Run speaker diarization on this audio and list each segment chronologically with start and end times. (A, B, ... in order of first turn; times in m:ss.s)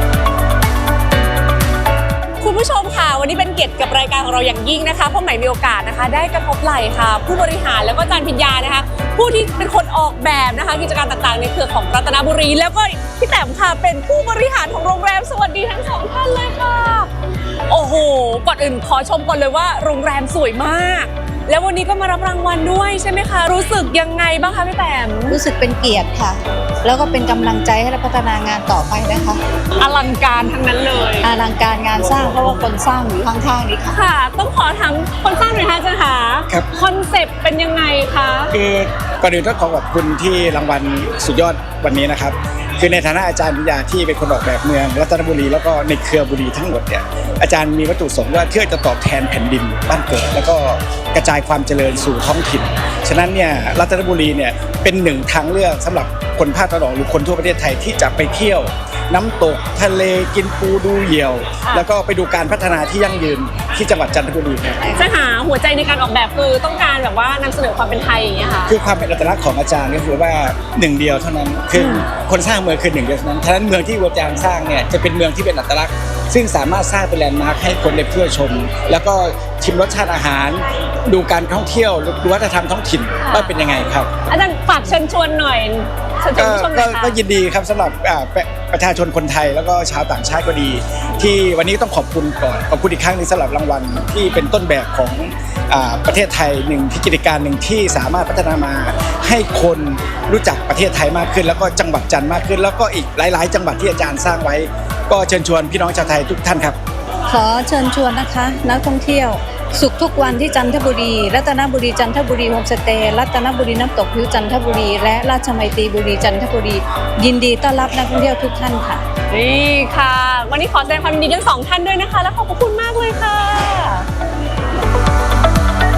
0:02.4-0:17.1 A
0:17.7-0:25.4 A
0:25.3-0:29.4 B
0:29.8-0:31.3 A
0:31.2-0:33.9 B
0:33.9-0:38.6 A
0:38.5-1:04.8 C
1:04.9-1:08.7 A
1:08.7-1:24.1 C
1:11.8-1:12.1 A
1:23.2-1:23.5 A
1:24.3-1:27.2 A
1:26.4-1:46.8 C
1:47.3-1:59.0 B
1:59.3-2:04.1 A